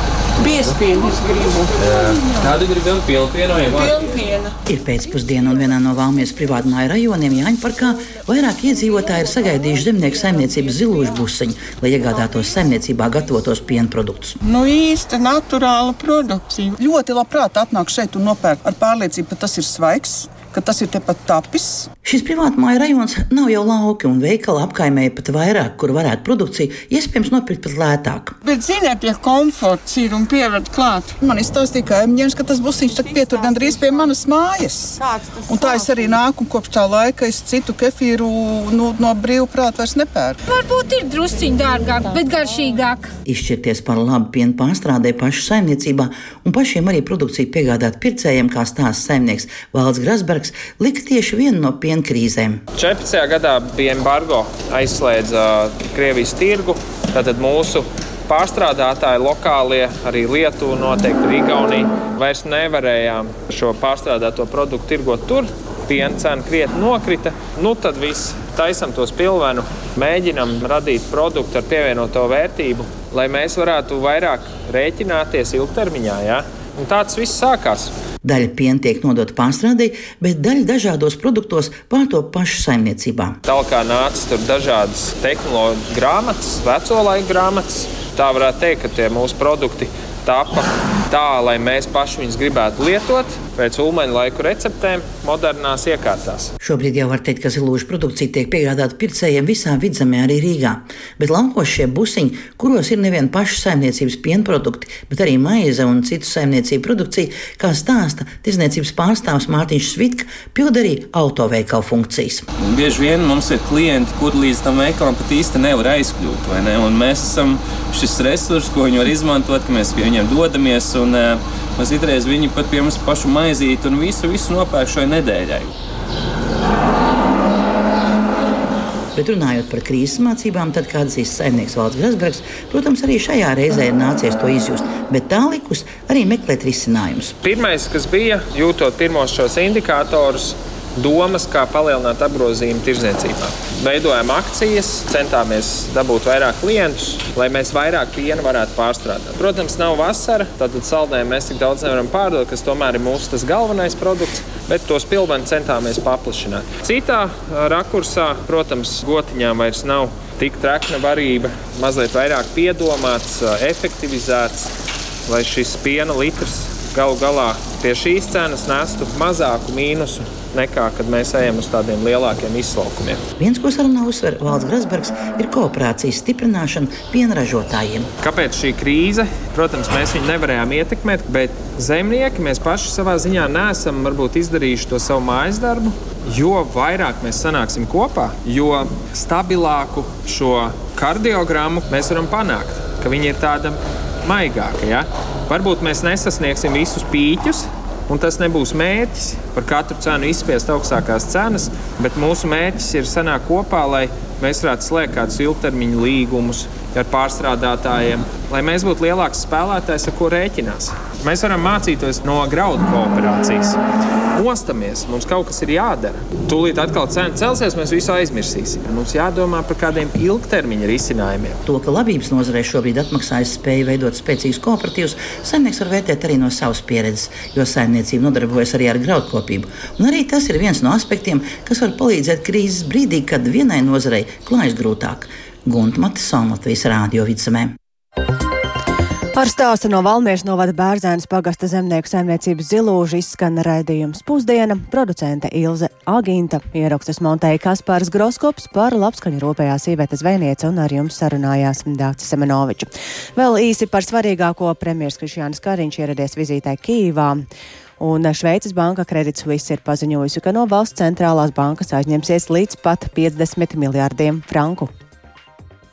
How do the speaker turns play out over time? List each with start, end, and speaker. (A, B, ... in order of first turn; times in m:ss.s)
0:00.4-0:02.6 A
0:01.8-0:04.2 B
0:03.7-0:04.6 A
0:04.6-0:14.4 C
0:14.4-0:21.9 A
0:22.0-0:28.4 C
0:28.4-0:40.4 A
0:40.5-0:43.1 D
0:43.2-0:52.6 C
0:52.7-1:17.9 E
1:18.2-1:23.4 C
1:23.4-1:36.5 E
1:36.6-1:52.4 C
1:52.6-2:05.7 B
2:09.1-2:17.4 C
2:17.4-2:44.7 E
2:45.3-2:53.2 E
2:53.4-2:58.1 C
2:58.2-3:33.8 E
3:34.3-3:41.6 E
3:41.6-3:57.8 C
3:59.3-4:17.4 F
4:18.0-4:24.9 F